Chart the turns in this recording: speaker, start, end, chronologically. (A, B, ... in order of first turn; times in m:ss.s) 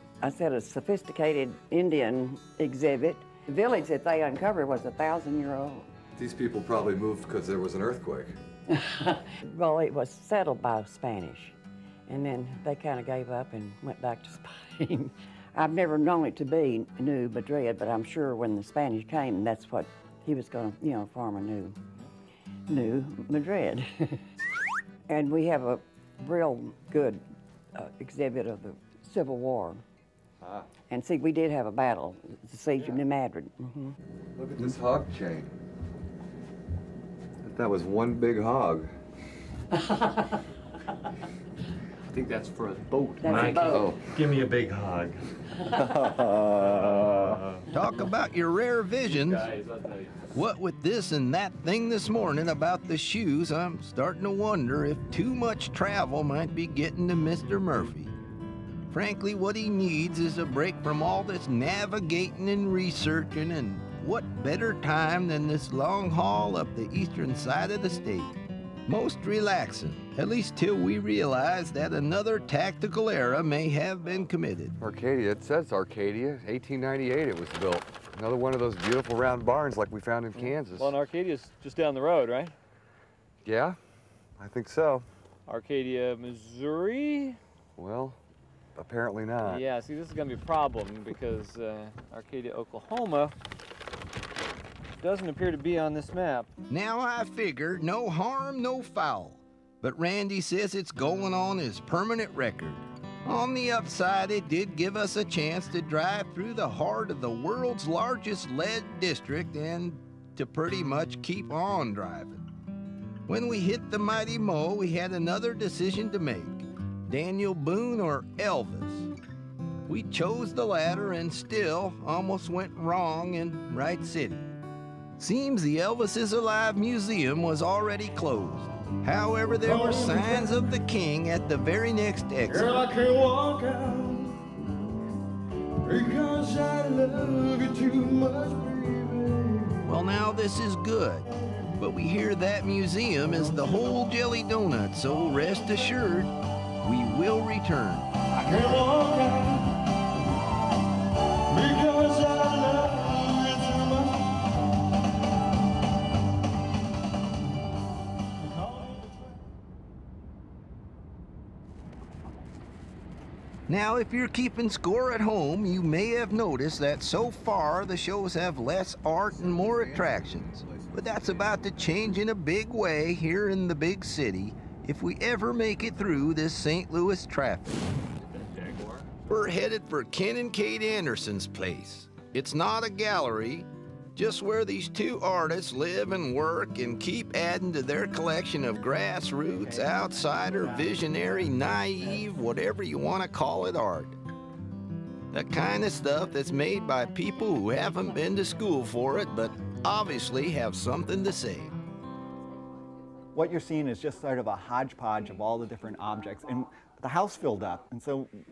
0:00.2-0:05.9 A
0:06.2-0:08.4 B
0:08.7-0:11.6 A
0:12.1-0:21.8 A
0:22.7-0:24.2 A
0:25.1-0:27.2 A
0:27.8-0:29.8 A
0:30.9-0:33.9 A
0:34.4-0:35.5 B
0:37.4-0:38.9 B
0:42.1-0:44.0 C
0:43.2-0:43.9 A
0:43.7-0:44.2 B
0:47.7-0:49.5 D
0:49.1-0:50.4 C
0:50.3-0:58.2 D
0:58.9-1:08.4 D
1:08.9-1:14.8 D
1:14.8-1:21.0 B
1:20.4-1:22.6 C
1:23.4-1:23.8 B
1:24.4-1:25.1 B
1:25.5-1:27.4 C
1:27.8-1:28.2 B
1:28.8-1:29.6 B
1:29.5-1:33.4 C
1:35.0-1:36.5 C
1:36.7-1:52.4 D
1:53.3-1:59.1 D
1:59.9-2:04.5 D
2:05.2-2:12.8 D
2:09.6-2:10.7 E
2:12.5-2:14.5 E
2:15.8-2:20.0 E
2:19.8-2:28.1 D
2:23.3-2:24.2 E
2:25.2-2:25.9 E
2:28.4-2:29.9 E
2:31.5-2:34.3 E
2:38.4-2:39.2 E
2:43.7-2:57.8 D
2:49.3-2:51.4 B
2:58.2-2:59.1 C
2:59.3-3:14.2 D
3:15.3-3:21.7 D
3:23.3-3:28.3 F